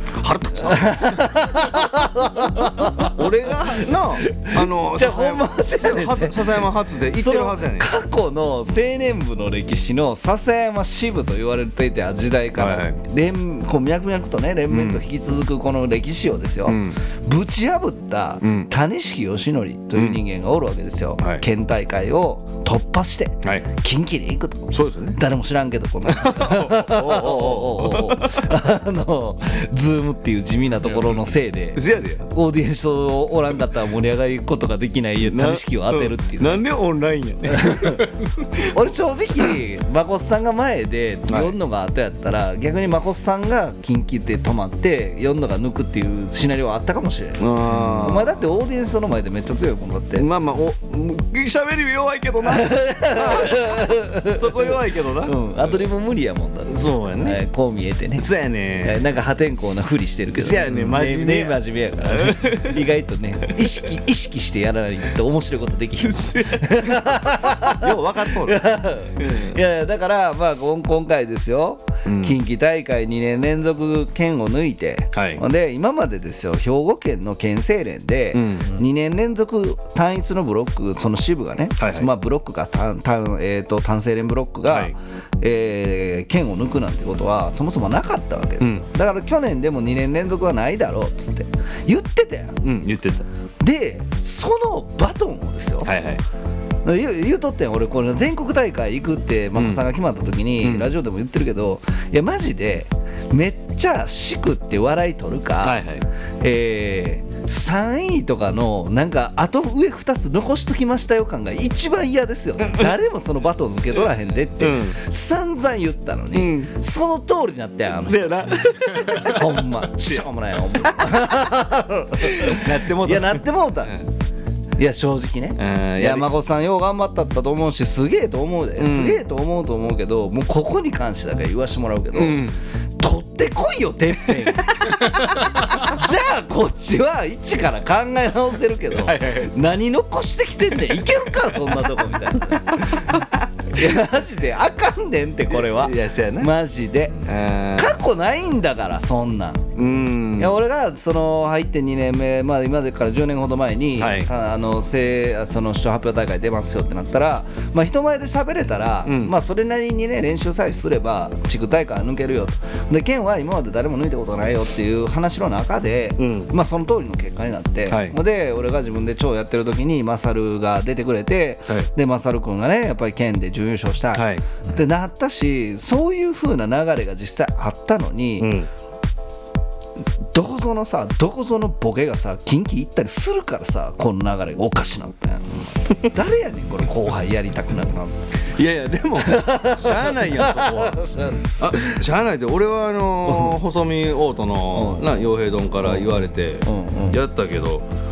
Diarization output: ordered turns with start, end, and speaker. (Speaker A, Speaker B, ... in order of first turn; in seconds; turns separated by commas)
Speaker A: 0.1-1.4, Speaker B: 0.5-36.6, Speaker A: 2.9-7.9, Speaker A: 12.6-13.0, Speaker A: 14.7-15.0, Speaker A: 16.6-17.0, Speaker A: 18.4-18.7, Speaker A: 19.9-20.2, Speaker A: 23.4-23.7, Speaker A: 24.7-25.2, Speaker A: 26.1-28.5, Speaker A: 30.9-31.2, Speaker A: 31.7-32.3, Speaker A: 35.2-38.7, Speaker B: 37.5-38.1, Speaker B: 38.6-50.3, Speaker A: 41.3-41.5, Speaker A: 47.4-48.4, Speaker A: 50.1-55.4, Speaker B: 52.4-58.3, Speaker A: 56.7-57.4, Speaker A: 58.2-59.0, Speaker B: 58.8-92.6, Speaker A: 60.4-62.9, Speaker A: 63.5-63.7, Speaker A: 66.0-69.5, Speaker A: 72.0-72.4, Speaker A: 75.1-75.4, Speaker A: 78.3-78.7, Speaker A: 81.8-82.1, Speaker A: 84.7-84.9, Speaker A: 92.6-93.2, Speaker B: 93.6-95.9, Speaker A: 95.8-96.2, Speaker B: 96.8-105.8, Speaker A: 99.5-99.8, Speaker A: 100.6-100.9, Speaker A: 105.6-106.0, Speaker B: 106.4-124.0, Speaker A: 112.6-112.9, Speaker A: 114.6-115.0, Speaker A: 116.3-116.7, Speaker A: 118.0-121.4, Speaker A: 122.2-124.0, Speaker B: 124.8-132.4, Speaker A: 125.6-126.3, Speaker A: 128.8-129.2, Speaker A: 132.1-132.6, Speaker B: 133.0-143.2, Speaker A: 138.9-139.5, Speaker A: 142.8-143.3, Speaker B: 143.7-149.7, Speaker A: 145.5-146.5, Speaker A: 147.2-148.0, Speaker A: 149.8-150.5, Speaker B: 150.4-178.5, Speaker A: 154.0-154.3, Speaker A: 159.0-159.3, Speaker A: 166.2-166.5, Speaker A: 167.9-168.2, Speaker A: 174.1-174.4, Speaker A: 178.4-178.7, Speaker B: 180.3-188.2, Speaker A: 188.5-197.9, Speaker B: 189.2-192.0, Speaker B: 193.3-193.6, Speaker B: 194.7-195.1, Speaker B: 195.8-197.2